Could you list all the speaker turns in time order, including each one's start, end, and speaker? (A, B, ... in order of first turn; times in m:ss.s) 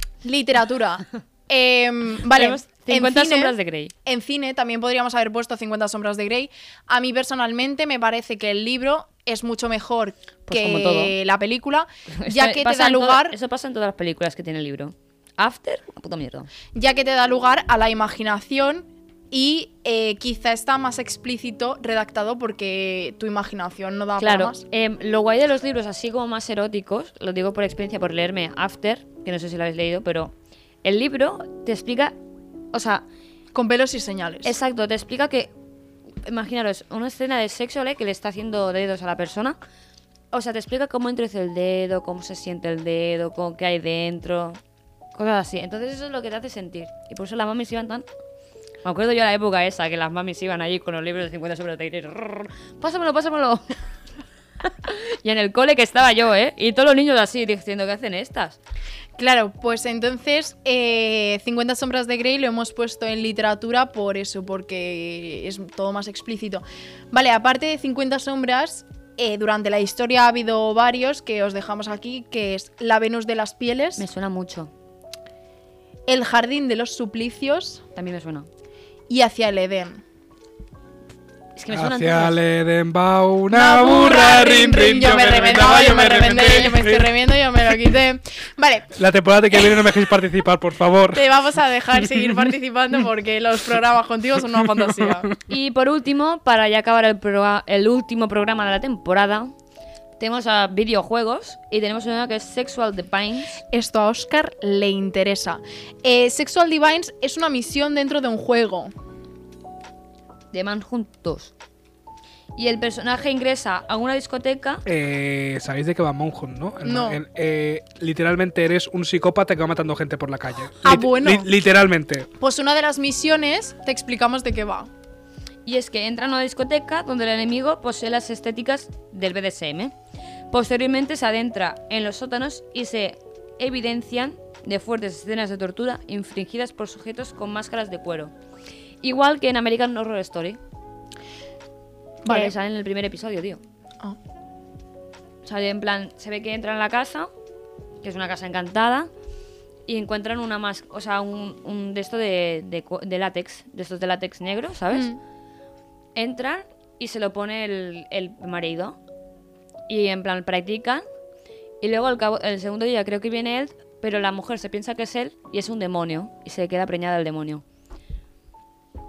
0:00.2-0:13.4 A
0:02.3-0:03.9 B
0:10.5-0:11.2 B
0:12.2-0:16.5 B
0:16.8-0:24.6 A
0:24.2-0:30.3 B
0:30.8-0:32.1 B
0:32.7-0:33.0 B
0:33.5-0:34.5 A
0:34.4-0:35.5 B
0:36.2-0:39.6 B
0:40.3-0:44.6 B
0:45.1-0:48.1 B
0:48.8-0:53.6 B
0:54.6-0:58.6 B
0:59.2-1:14.0 A
1:14.0-1:14.7 B
1:16.1-1:17.8 A
1:18.0-1:18.5 B
1:19.1-1:20.0 A
1:21.6-1:22.4 B
1:21.7-1:27.1 C
1:23.5-1:28.9 A
1:25.8-1:26.1 B
1:29.0-1:31.3 C
1:31.1-1:35.3 A
1:34.7-1:35.3 C
1:35.5-1:39.5 B
1:40.2-1:43.6 B
1:43.7-1:48.9 A
1:50.5-1:51.5 B
1:52.6-1:54.8 B
1:54.8-2:02.3 C
1:56.8-1:57.2 A
2:00.8-2:01.5 A
2:02.4-2:04.9 A
2:05.6-2:09.9 B
2:10.5-2:18.3 B
2:19.0-2:20.6 B
2:22.2-2:22.5 A
2:22.3-2:23.6 B
2:25.4-2:27.3 B
2:28.0-2:29.1 B
2:29.9-2:35.1 B
2:34.9-2:35.2 A
2:36.1-2:39.0 B
2:39.9-2:41.0 B
2:41.8-2:47.6 B